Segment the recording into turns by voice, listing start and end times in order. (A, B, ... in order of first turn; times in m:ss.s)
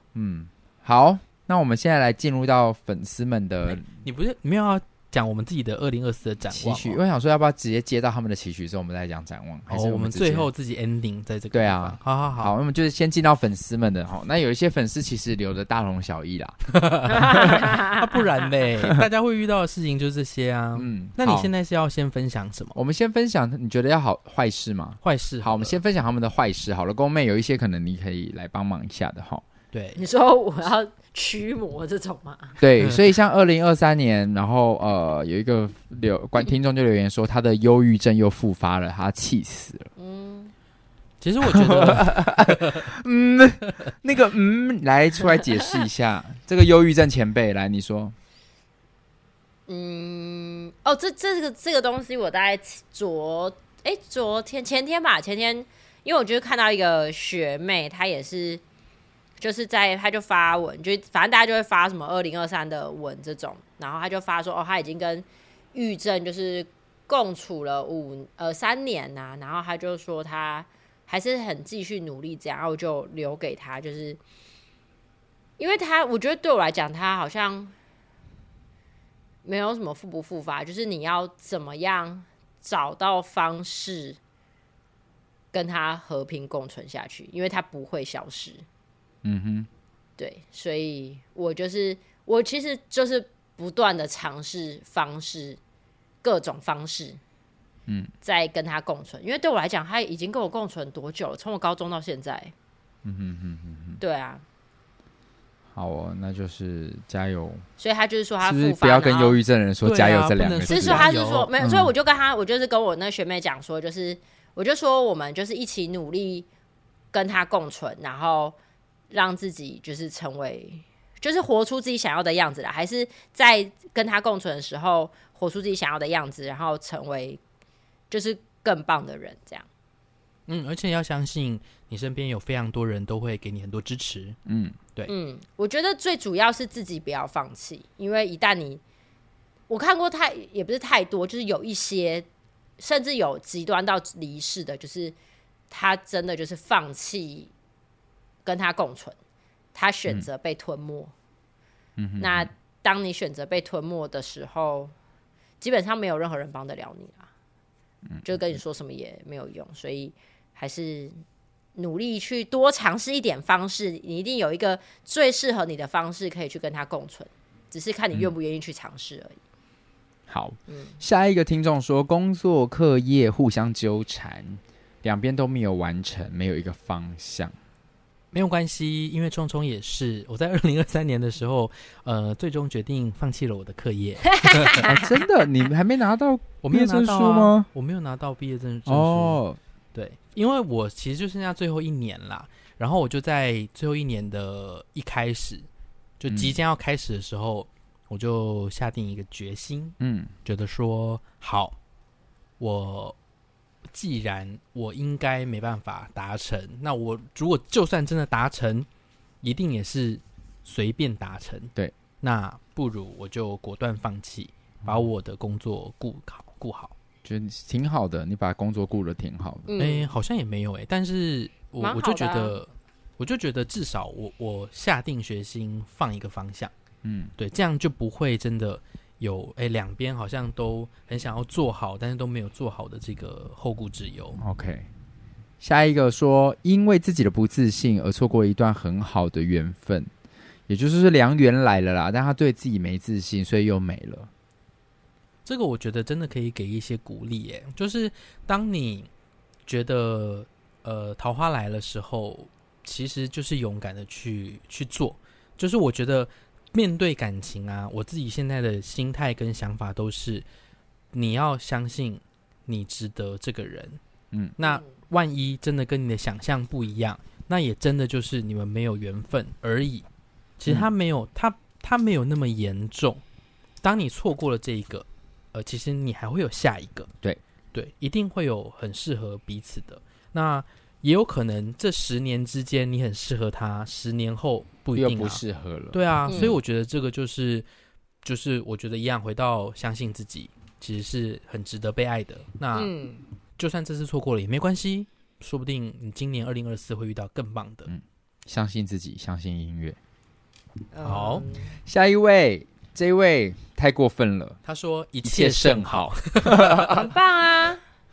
0:00.1-0:03.9 A
0:03.7-0:07.0 B
0:06.5-0:10.5 A
0:09.7-0:12.5 B
0:11.5-0:17.8 A
0:16.7-0:22.8 B
0:17.6-0:17.9 C
0:20.8-0:21.5 A
0:22.8-0:29.4 A
0:25.0-0:25.8 B
0:29.7-0:30.0 B
0:30.0-0:32.6 C
0:32.6-0:39.9 A
0:40.0-0:40.5 C
0:41.2-0:42.9 B
0:41.4-0:48.1 A
0:49.7-0:58.6 C
0:59.4-1:14.2 C
1:15.6-1:17.7 C
1:19.4-1:24.2 C
1:25.5-1:28.6 C
1:29.2-1:29.7 A
1:30.2-1:35.6 C
1:36.2-1:37.2 C
1:38.2-1:42.5 C
1:43.0-1:44.0 A
1:44.0-1:44.4 C
1:45.7-1:47.6 A
1:47.8-1:49.4 C
1:48.4-1:51.1 A
1:49.8-1:51.5 B
1:50.7-1:56.5 C
1:51.6-1:51.9 A
1:57.1-1:58.6 C
1:59.1-2:07.4 C
2:08.1-2:09.7 C
2:10.5-2:14.4 B
2:14.4-2:14.8 A
2:15.1-2:18.8 C
2:19.7-2:22.3 C
2:22.8-2:25.1 C
2:25.7-2:27.5 C
2:28.4-2:29.2 C
2:29.8-2:31.1 C
2:32.0-2:32.5 A
2:32.2-2:34.9 C
2:35.6-2:37.3 C
2:38.2-2:41.2 C
2:41.8-2:49.4 C
2:50.3-2:57.5 A
2:50.7-2:51.0 C
2:58.3-3:04.8 B
3:04.5-3:04.9 C
3:04.7-3:07.7 A
3:06.6-3:09.4 B
3:08.9-3:09.6 A
3:09.9-3:15.7 B
3:16.2-3:21.8 B
3:16.3-3:16.6 A
3:20.0-3:20.3 A
3:22.6-3:23.2 B
3:23.9-3:28.9 B
3:29.4-3:36.9 B
3:37.2-3:39.7 A
3:39.7-3:40.1 C
3:39.8-3:46.7 B
3:41.8-3:42.6 C
3:47.0-3:47.3 A
3:47.4-3:54.4 B
3:54.4-3:54.9 A
3:55.6-4:00.1 A
4:00.7-4:04.3 A
4:05.4-4:09.1 B
4:09.7-4:20.4 B
4:21.1-4:24.0 B
4:24.6-4:30.1 B
4:30.6-4:33.2 B
4:33.8-4:37.1 B
4:37.7-4:47.7 B
4:45.0-4:46.6 A
4:46.3-4:46.6 C
4:48.2-4:52.9 B
4:52.7-4:53.2 C
4:53.6-4:57.9 B
4:57.9-5:00.0 A
5:00.9-5:01.8 C
5:01.0-5:01.5 B
5:01.8-5:04.6 A
5:04.6-5:07.1 B
5:05.2-5:07.0 A
5:06.9-5:07.8 C